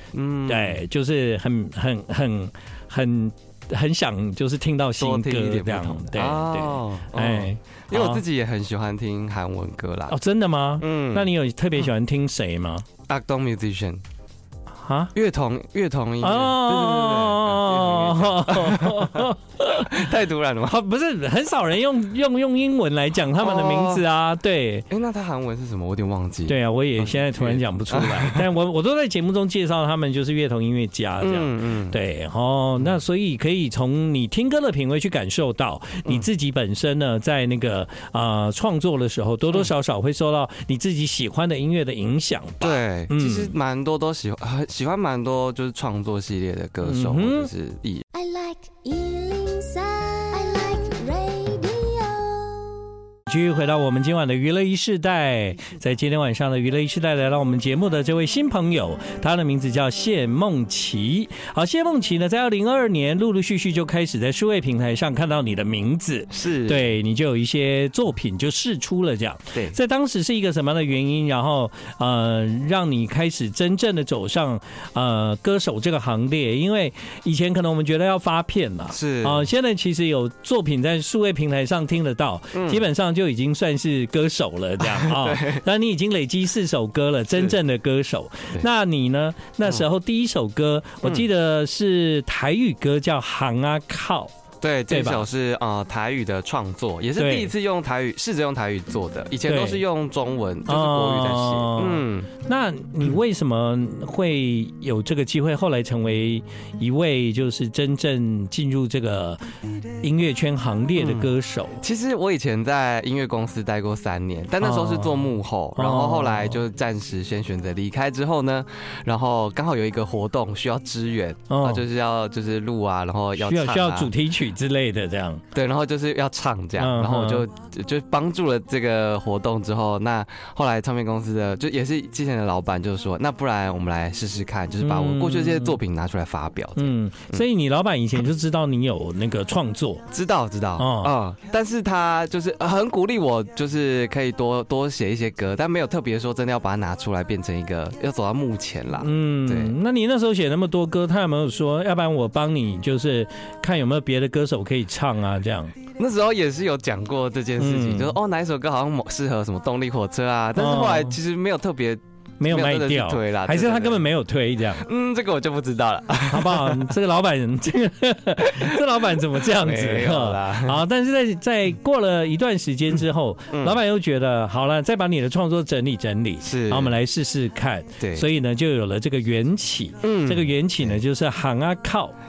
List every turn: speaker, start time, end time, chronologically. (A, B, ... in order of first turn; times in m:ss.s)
0:00.1-0:00.8 A
0:00.5-0:08.2 B
0:05.0-0:10.2 A
0:10.1-0:12.9 B
0:10.8-0:11.3 A
0:13.1-0:14.0 A
0:14.8-0:15.1 B
0:15.2-0:20.8 A
0:16.2-0:20.0 B
0:20.7-0:24.9 B
0:23.4-0:24.0 A
0:24.9-0:28.6 A
0:26.5-0:43.5 B
0:31.2-0:32.0 A
0:42.6-0:48.0 A
0:46.8-0:47.5 B
0:48.1-0:52.9 C
0:53.3-1:34.3 B
1:06.3-1:06.9 A
1:18.9-1:19.5 A
1:22.5-1:22.8 A
1:24.8-1:25.6 A
1:34.6-1:42.3 A
1:34.9-1:35.2 B
1:37.2-1:37.5 B
1:39.5-1:39.8 B
1:40.7-1:49.4 B
1:50.0-1:51.8 B
1:51.0-2:04.1 A
1:54.6-1:55.2 B
1:55.8-1:56.6 B
2:01.5-2:01.8 B
2:03.4-2:05.4 B
2:05.5-2:17.4 A
2:06.8-2:07.4 B
2:14.8-2:15.8 B
2:16.8-2:20.0 B
2:20.1-2:29.8 A
2:20.8-2:21.2 B
2:29.0-2:35.8 B
2:36.0-2:44.1 A
2:37.6-2:38.2 B
2:40.6-2:41.2 B
2:42.4-2:44.9 B
2:44.8-2:46.9 A
2:46.3-3:02.1 B
2:48.4-2:50.8 A
2:53.5-2:53.8 A
2:56.4-2:57.0 A
2:58.0-2:58.3 A
3:00.0-3:01.0 A